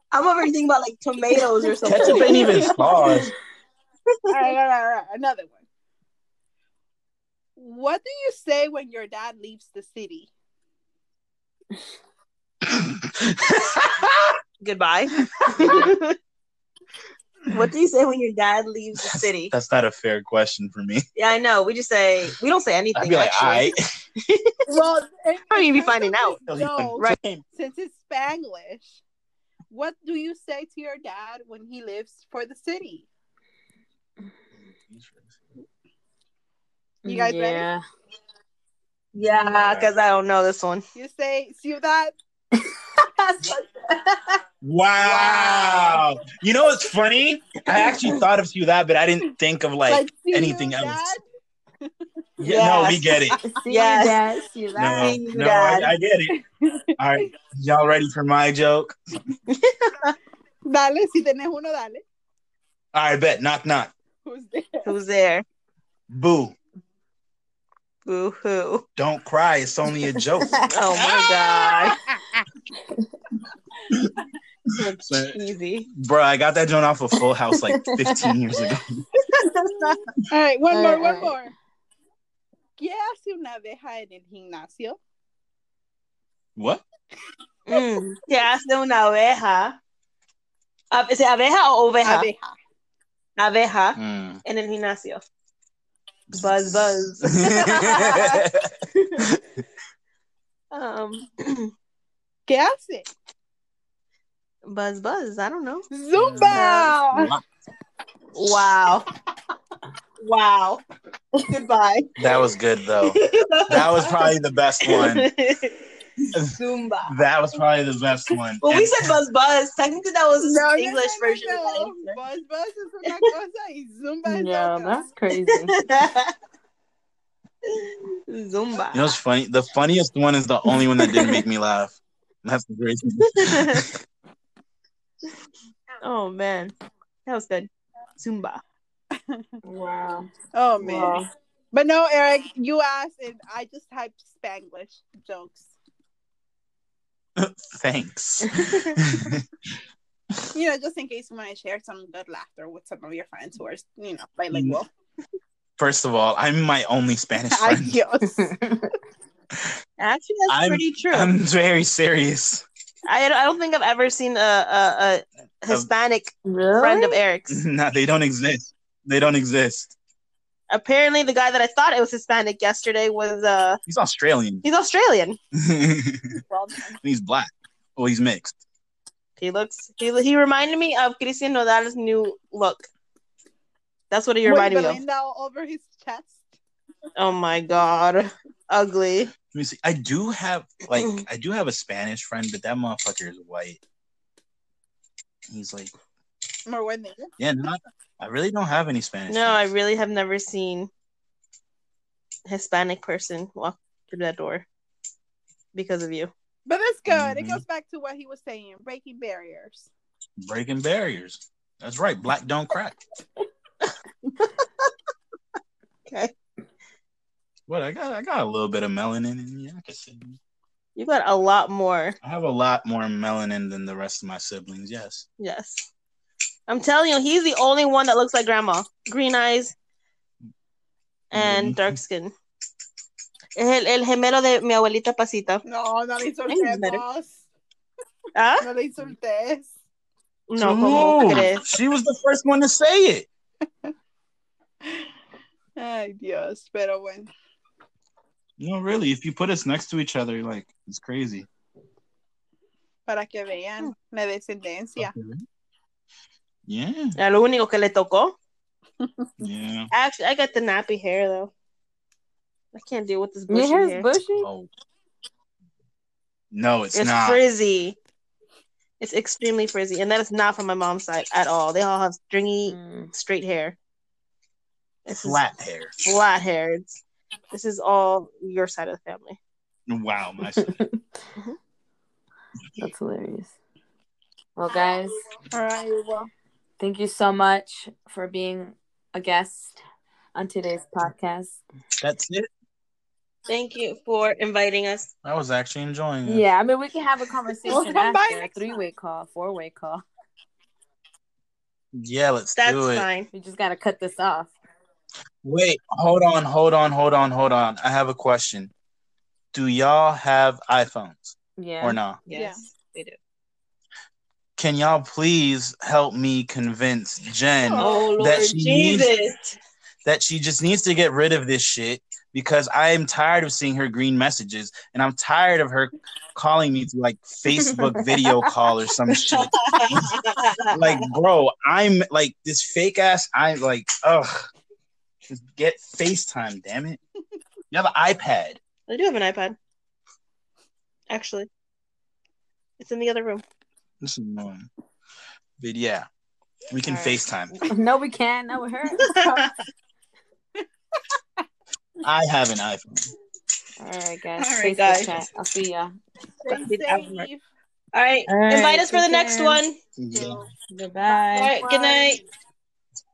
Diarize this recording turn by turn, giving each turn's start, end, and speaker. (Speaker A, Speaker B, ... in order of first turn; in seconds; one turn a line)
Speaker A: 0.1-3.2
Speaker B: 1.8-3.3
Speaker C: 1.9-2.8
Speaker A: 4.1-4.5
Speaker C: 4.3-5.6
Speaker C: 7.6-10.3
Speaker B: 12.7-14.1
Speaker A: 14.6-16.1
Speaker B: 15.6-15.9
Speaker A: 17.5-19.5
Speaker B: 19.0-21.0
Speaker A: 21.1-24.6
Speaker B: 22.9-23.9
Speaker C: 24.7-29.0
Speaker A: 25.5-26.4
Speaker B: 26.5-27.4
Speaker C: 29.7-33.0
Speaker B: 34.9-35.3
Speaker D: 37.0-37.8
Speaker C: 37.0-37.7
Speaker A: 39.1-40.9
Speaker B: 39.3-39.9
Speaker C: 40.9-42.1
Speaker D: 42.6-43.6
Speaker B: 44.6-51.1
Speaker C: 49.9-51.2
Speaker B: 52.4-53.4
Speaker A: 52.4-53.1
Speaker D: 53.4-55.1
Speaker A: 53.7-54.2
Speaker B: 54.8-56.4
Speaker A: 54.9-55.9
Speaker C: 56.3-56.9
Speaker B: 57.0-59.0
Speaker A: 59.5-60.1
Speaker C: 60.6-62.0
Speaker B: 62.9-63.9
Speaker C: 64.2-64.9
Speaker A: 64.8-65.4
Speaker B: 66.1-66.5
Speaker A: 68.0-68.8
Speaker B: 69.0-70.6
Speaker D: 70.4-70.7
Speaker A: 70.7-72.0
Speaker A: 74.7-75.9
Speaker B: 75.0-75.4
Speaker B: 75.9-79.0
Speaker D: 77.5-78.3
Speaker A: 79.3-80.0
Speaker C: 80.3-81.5
Speaker D: 80.7-81.3
Speaker C: 82.8-85.0
Speaker B: 86.5-86.8
Speaker A: 87.7-89.8
Speaker A: 90.9-92.3
Speaker C: 92.0-92.5
Speaker A: 93.4-95.2
Speaker B: 94.0-94.4
Speaker A: 96.3-98.4
Speaker B: 96.3-96.8
Speaker B: 97.3-99.4
Speaker C: 97.9-98.4
Speaker A: 98.9-99.2
Speaker A: 100.7-101.7
Speaker C: 102.5-103.1
Speaker A: 104.6-105.9
Speaker C: 105.9-107.3
Speaker B: 106.1-107.4
Speaker A: 106.5-106.9
Speaker A: 108.3-109.1
Speaker A: 110.2-110.8
Speaker A: 111.3-112.4
Speaker B: 112.2-115.3
Speaker A: 113.0-117.1
Speaker B: 116.3-119.2
Speaker A: 118.6-122.2
Speaker C: 120.4-125.1
Speaker D: 124.2-125.7
Speaker A: 125.7-126.3
Speaker A: 127.7-129.1
Speaker B: 128.9-134.0
Speaker A: 130.7-131.4
Speaker A: 133.2-133.8
Speaker A: 136.0-136.7
Speaker A: 137.2-137.7
Speaker A: 138.2-138.6
Speaker C: 139.1-139.4
Speaker D: 139.6-140.3
Speaker C: 140.5-141.2
Speaker D: 140.8-141.3
Speaker C: 141.7-145.7
Speaker B: 147.4-149.4
Speaker C: 150.5-154.9
Speaker B: 154.5-154.8
Speaker B: 155.8-158.0
Speaker C: 157.5-158.5
Speaker D: 158.3-158.9
Speaker A: 160.0-161.3
Speaker B: 160.5-162.6
Speaker A: 163.1-167.6
Speaker D: 166.4-167.2
Speaker B: 167.5-169.9
Speaker A: 170.7-173.8
Speaker B: 173.9-174.6
Speaker A: 174.6-175.4
Speaker B: 175.6-176.4
Speaker C: 176.4-177.0
Speaker B: 177.0-178.6
Speaker A: 179.4-182.9
Speaker A: 184.1-185.0
Speaker C: 184.4-186.5
Speaker A: 187.2-189.3
Speaker B: 189.5-193.8
Speaker A: 190.9-191.2
Speaker B: 195.5-195.9
Speaker C: 196.7-197.3
Speaker B: 197.4-199.7
Speaker A: 199.3-200.9
Speaker A: 202.5-204.6
Speaker A: 205.7-206.3
Speaker C: 206.7-209.9
Speaker B: 207.1-207.6
Speaker B: 210.4-213.0
Speaker A: 216.1-216.3
Speaker B: 217.7-220.4
Speaker A: 220.9-222.2
Speaker B: 222.2-225.2
Speaker A: 225.4-225.9
Speaker A: 226.7-229.7
Speaker A: 231.3-232.3
Speaker B: 231.3-232.0
Speaker A: 233.6-235.6
Speaker C: 235.7-237.4
Speaker A: 236.5-237.0
Speaker A: 238.4-238.7
Speaker C: 238.6-239.7
Speaker A: 240.5-241.7
Speaker B: 240.6-243.3
Speaker C: 245.8-247.3
Speaker B: 248.6-251.5
Speaker C: 253.1-255.1
Speaker B: 255.0-255.4
Speaker B: 256.7-257.2
Speaker A: 257.2-258.3
Speaker C: 259.0-259.3
Speaker B: 259.4-259.9
Speaker A: 259.9-261.5
Speaker A: 262.7-264.1
Speaker D: 263.5-264.5
Speaker B: 264.4-264.7
Speaker B: 266.5-267.4
Speaker A: 266.9-268.0
Speaker A: 269.0-273.8
Speaker D: 272.7-273.1
Speaker A: 275.1-275.4
Speaker B: 275.1-275.9
Speaker A: 276.0-277.0
Speaker A: 277.5-279.4
Speaker B: 279.9-280.7
Speaker D: 280.6-281.0
Speaker D: 282.8-283.5
Speaker D: 284.6-285.1
Speaker C: 285.5-286.3
Speaker D: 286.8-289.8
Speaker D: 290.3-291.6
Speaker B: 292.0-292.5
Speaker A: 293.5-295.1
Speaker B: 295.2-296.4
Speaker D: 296.2-300.0
Speaker C: 297.6-298.8
Speaker B: 301.9-303.1
Speaker A: 302.6-303.3
Speaker D: 303.3-304.5
Speaker B: 305.4-308.7
Speaker B: 309.5-312.2
Speaker D: 311.6-312.0
Speaker A: 312.3-313.2
Speaker C: 312.3-312.6
Speaker B: 314.6-319.1
Speaker C: 317.6-318.1
Speaker A: 317.8-319.6
Speaker B: 320.1-330.1
Speaker D: 327.6-328.4
Speaker A: 329.1-331.0
Speaker B: 330.7-334.5
Speaker B: 335.3-337.0
Speaker B: 337.7-338.6
Speaker A: 338.9-339.6
Speaker A: 341.1-341.5
Speaker A: 342.8-343.4
Speaker B: 344.0-344.7
Speaker B: 345.6-346.1
Speaker B: 346.7-347.6
Speaker A: 346.9-347.2
Speaker D: 347.6-349.2
Speaker A: 349.0-349.5
Speaker B: 352.0-353.1
Speaker D: 353.8-355.9
Speaker A: 354.5-355.1
Speaker C: 356.4-357.4
Speaker A: 356.5-357.3
Speaker A: 357.9-359.8
Speaker D: 358.3-359.6
Speaker B: 360.0-360.4
Speaker C: 360.1-360.5
Speaker D: 360.7-362.1
Speaker A: 361.3-362.2